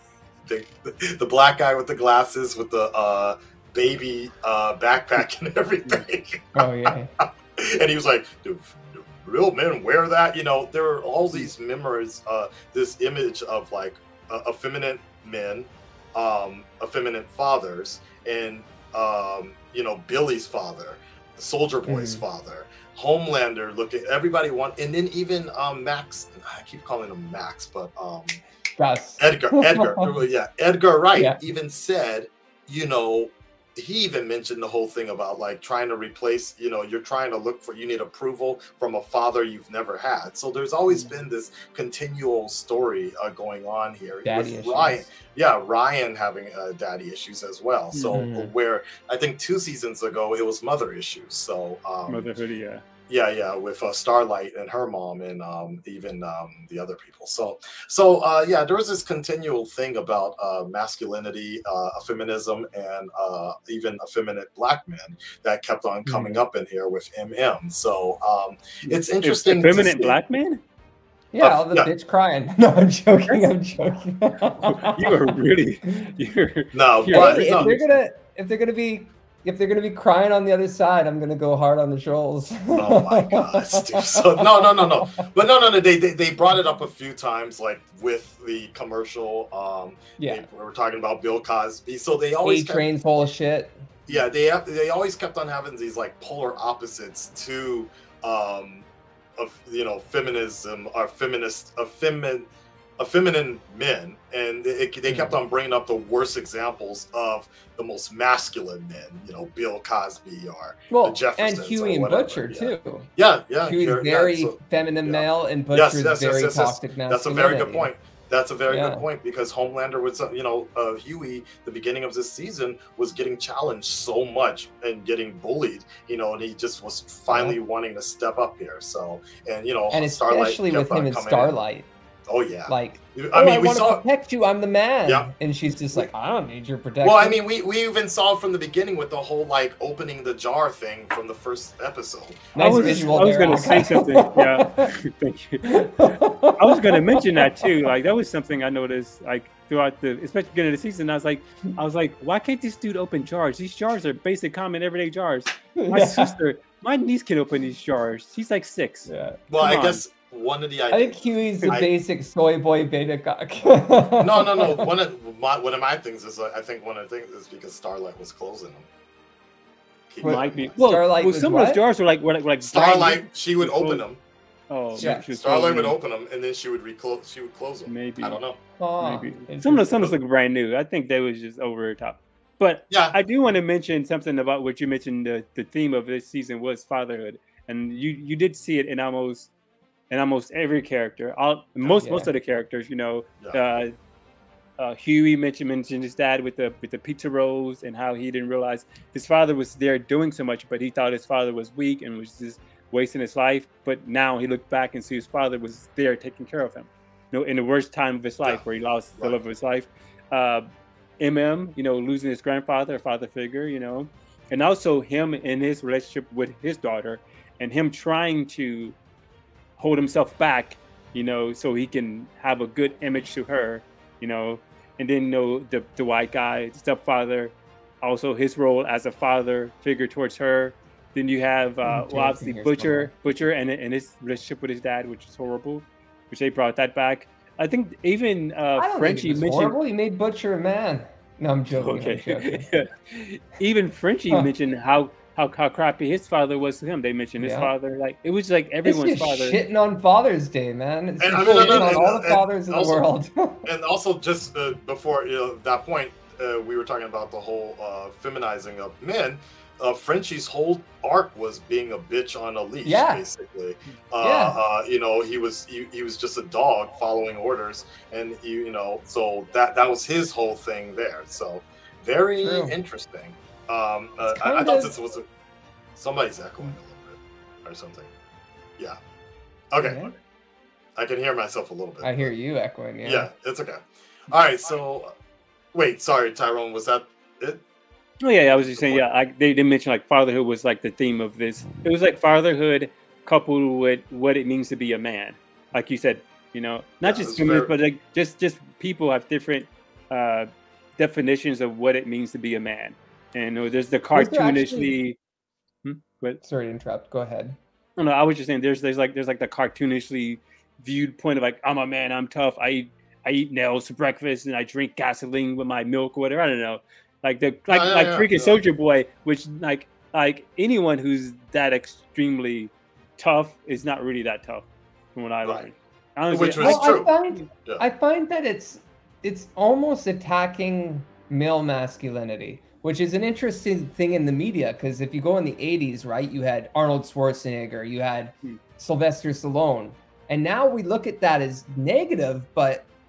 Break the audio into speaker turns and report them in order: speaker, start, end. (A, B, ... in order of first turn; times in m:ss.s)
0:00.4-0:28.4 A
0:06.6-0:07.1 B
0:21.8-0:22.2 B
0:28.8-0:30.1 B
0:29.2-0:52.3 A
0:31.1-0:31.4 B
0:44.2-0:45.1 B
0:47.9-0:48.2 C
0:48.1-0:48.5 B
0:52.1-0:52.8 C
0:53.1-1:10.2 A
1:06.1-1:06.4 C
1:08.8-1:10.6 C
1:11.3-1:15.1 B
1:11.4-1:11.9 A
1:14.6-1:18.0 C
1:16.7-1:17.7 A
1:17.1-1:24.6 B
1:22.7-1:32.9 A
1:30.2-1:30.4 B
1:32.4-1:33.9 B
1:34.1-1:38.8 A
1:39.4-2:11.6 A
1:50.9-1:53.1 B
1:53.6-1:57.9 B
1:58.7-1:59.0 B
2:07.3-2:07.6 B
2:09.9-2:11.9 B
2:12.3-2:14.0 A
2:12.7-2:17.4 B
2:17.0-2:24.2 A
2:22.5-2:24.8 B
2:22.6-2:40.0 C
2:25.7-2:27.6 B
2:35.8-2:36.3 B
2:39.1-2:39.4 B
2:39.5-2:41.9 A
2:40.9-2:44.9 B
2:44.2-2:48.9 A
2:50.1-2:50.8 A
2:50.2-2:51.8 B
2:50.2-2:54.0 C
2:52.6-2:54.2 A
2:54.7-2:56.0 C
2:54.9-2:58.6 A
2:55.0-2:55.2 B
2:57.9-2:58.4 C
2:58.8-3:00.1 B
2:59.0-3:09.5 C
3:02.9-3:03.1 A
3:10.1-3:13.9 C
3:12.0-3:12.3 B
3:14.8-3:30.7 C
3:31.2-3:39.0 C
3:39.8-3:59.8 C
3:51.8-3:53.1 B
3:58.8-4:02.6 B
4:01.8-4:09.6 C
4:07.4-4:07.7 B
4:08.8-4:13.6 B
4:11.2-4:13.0 A
4:11.5-4:11.8 C
4:13.6-4:35.2 A
4:22.8-4:23.2 B
4:24.2-4:24.6 B
4:32.4-4:32.7 B
4:34.3-4:35.0 B
4:36.0-4:38.1 A
4:39.7-4:40.1 A
4:39.8-4:40.1 B
4:41.0-4:42.3 A
4:42.0-4:43.3 B
4:43.0-4:45.1 A
4:45.7-4:47.6 A
4:48.2-5:05.2 C
4:48.6-4:49.0 A
4:57.0-4:57.7 A
5:04.1-5:05.0 B
5:05.8-5:06.4 C
5:06.4-5:07.6 B
5:08.0-5:27.4 C
5:17.7-5:18.6 A
5:26.3-5:27.8 A
5:26.6-5:42.8 B